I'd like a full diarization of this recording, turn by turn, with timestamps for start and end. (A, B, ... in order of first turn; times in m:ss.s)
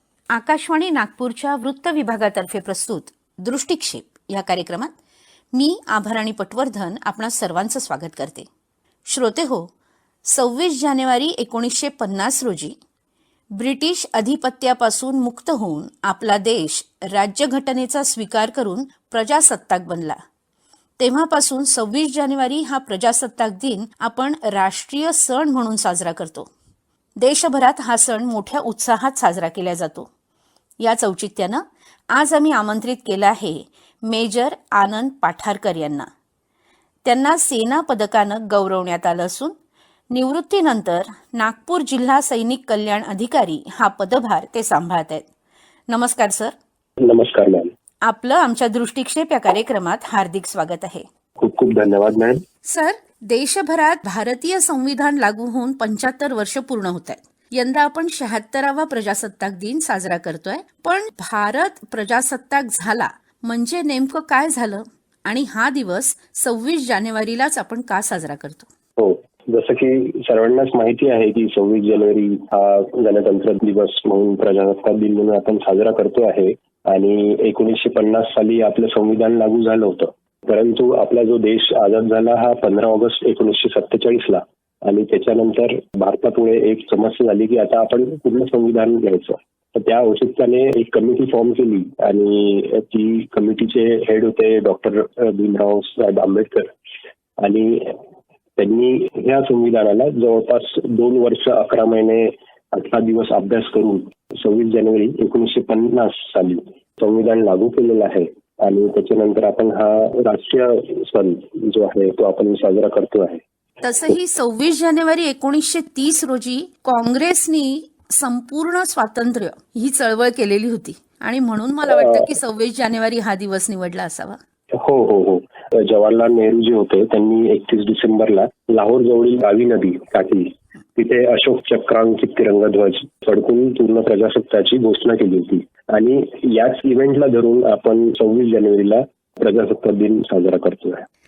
0:00.3-0:04.9 A
0:05.5-0:08.5 A
0:09.1-0:09.7 A
0:10.2-0:12.8 A
0:13.5-0:20.2 A
0:21.0-0:26.5 A
0:27.2-0:30.1 A
0:30.8-0:36.1 A
0:37.0-0:39.5 A
0:40.1-0:45.3 A
0:45.9-0:46.5 A
0:47.0-0:47.7 B
0:48.0-0:51.0 A
0:51.4-0:52.4 B
0:52.6-1:08.7 A
1:09.0-1:36.7 B
1:37.4-1:38.0 B
1:38.6-1:53.4 B
1:53.8-2:04.4 A
2:01.9-2:02.3 B
2:04.8-2:21.1 B